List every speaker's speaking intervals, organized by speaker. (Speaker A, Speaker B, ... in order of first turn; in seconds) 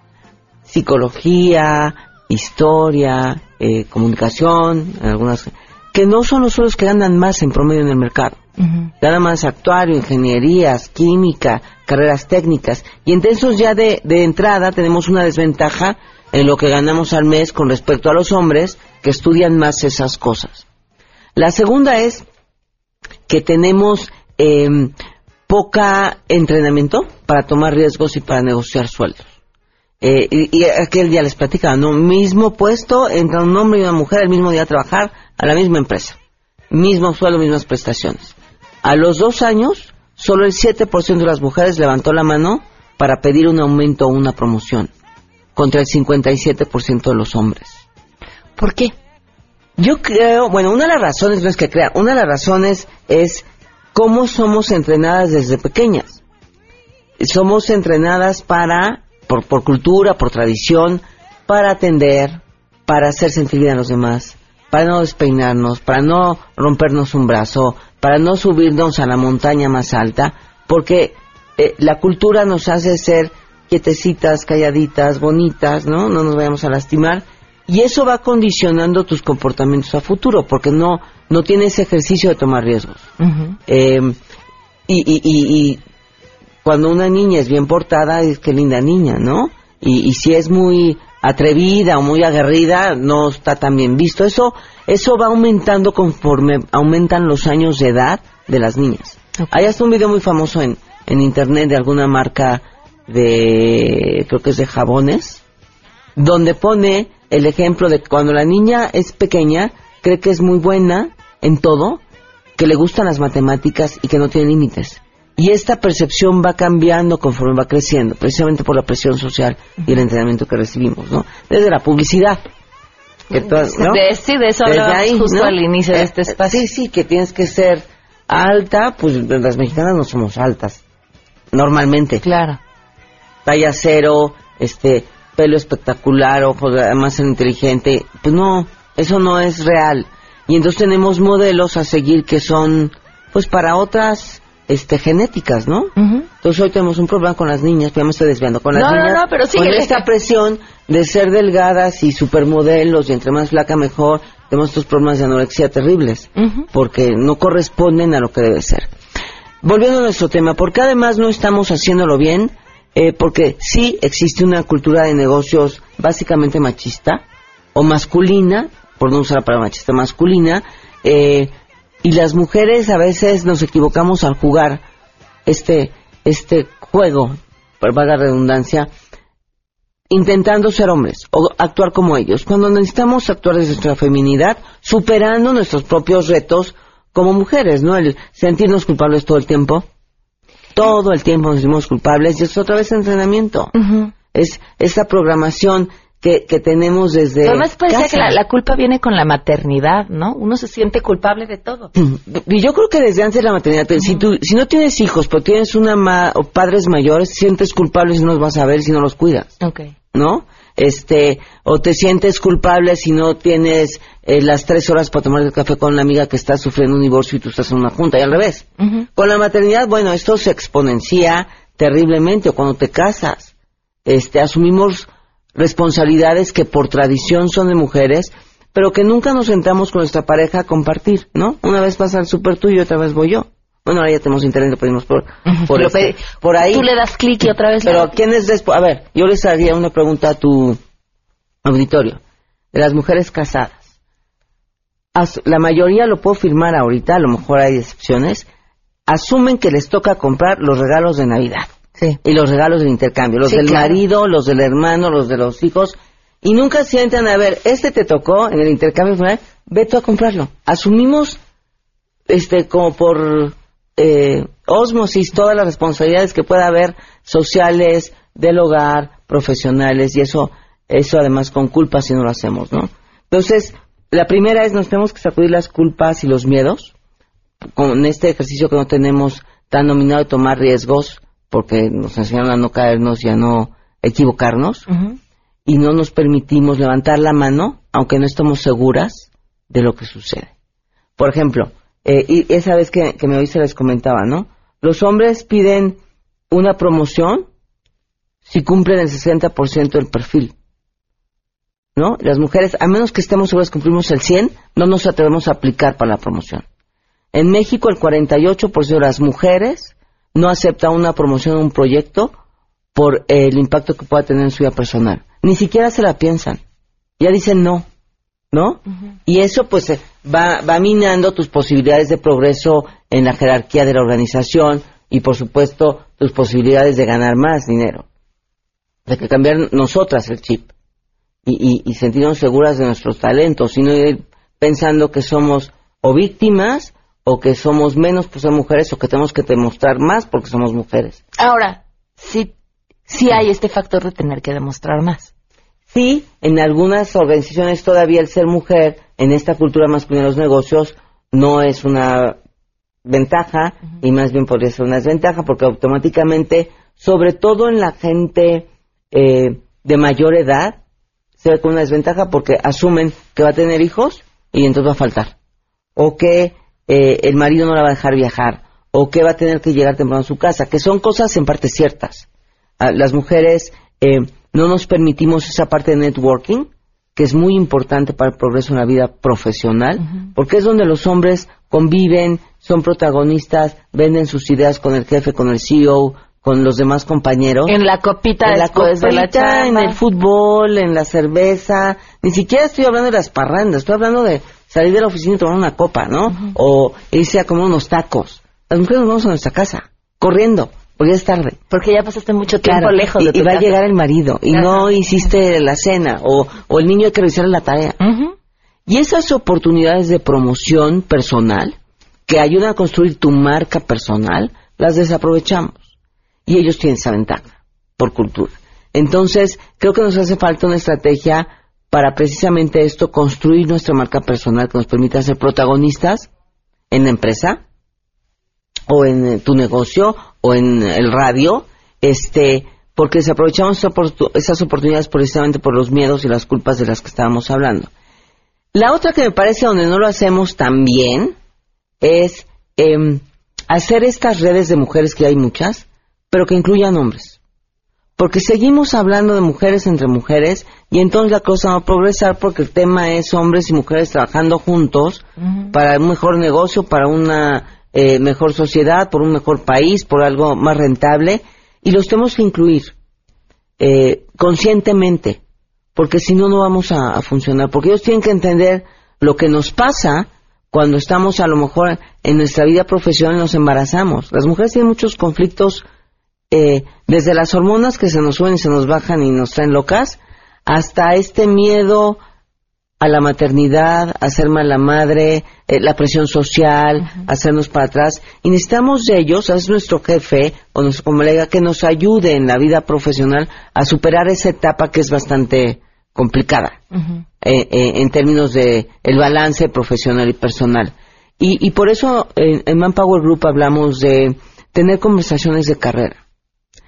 Speaker A: 0.7-8.4, 9.0-20.6, 21.4-22.2, 23.3-24.9, 25.5-29.3, 30.0-36.2, 36.7-44.9, 45.6-47.8, 49.8-56.2, 57.2-83.1, 83.7-84.2, 84.9-85.8, 86.6-105.4, 106.2-112.0, 112.6-122.4, 123.3-124.0, 124.7-130.8, 131.5-132.2, 133.5-158.9, 159.6-167.2, 167.8-171.5, 172.0-174.8, 175.5-178.9, 180.1-189.9, 190.8-193.7, 194.3-198.4, 202.0-209.6, 210.1-223.5, 224.1-236.9, 237.8-240.8, 241.6-242.2, 242.7-243.8, 245.2-248.5, 249.1-261.4, 262.3-276.9, 277.8-284.9, 285.7-290.5, 291.2-296.0, 296.5-297.5, 298.5-300.5, 302.0-306.6, 307.3-312.3, 312.9-316.6, 317.2-317.9, 318.5-328.1, 329.1-330.7, 331.5-341.2, 345.9-352.4, 353.1-360.8, 361.4-365.3, 366.0-372.3, 372.8-387.8, 388.4-401.6, 402.6-408.0, 408.9-411.8, 412.3-415.9, 416.5-426.3, 426.9-427.6, 428.9-437.9, 438.7-441.4, 442.0-447.4, 448.2-462.9, 463.8-465.4, 465.9-475.9, 476.5-482.2, 483.0-496.8, 497.4-506.2
Speaker B: 8.6-8.9, 48.6-48.9, 83.2-83.6, 123.3-126.7, 132.2-132.6, 146.0-146.3, 148.7-150.0, 156.4-156.7, 193.7-194.1, 197.4-201.9, 209.6-209.9, 218.8-219.1, 235.5-238.1, 253.4-254.0, 284.9-285.1, 341.4-342.5, 343.1-345.3, 387.7-390.0, 401.7-403.8, 404.5-404.9, 408.0-408.3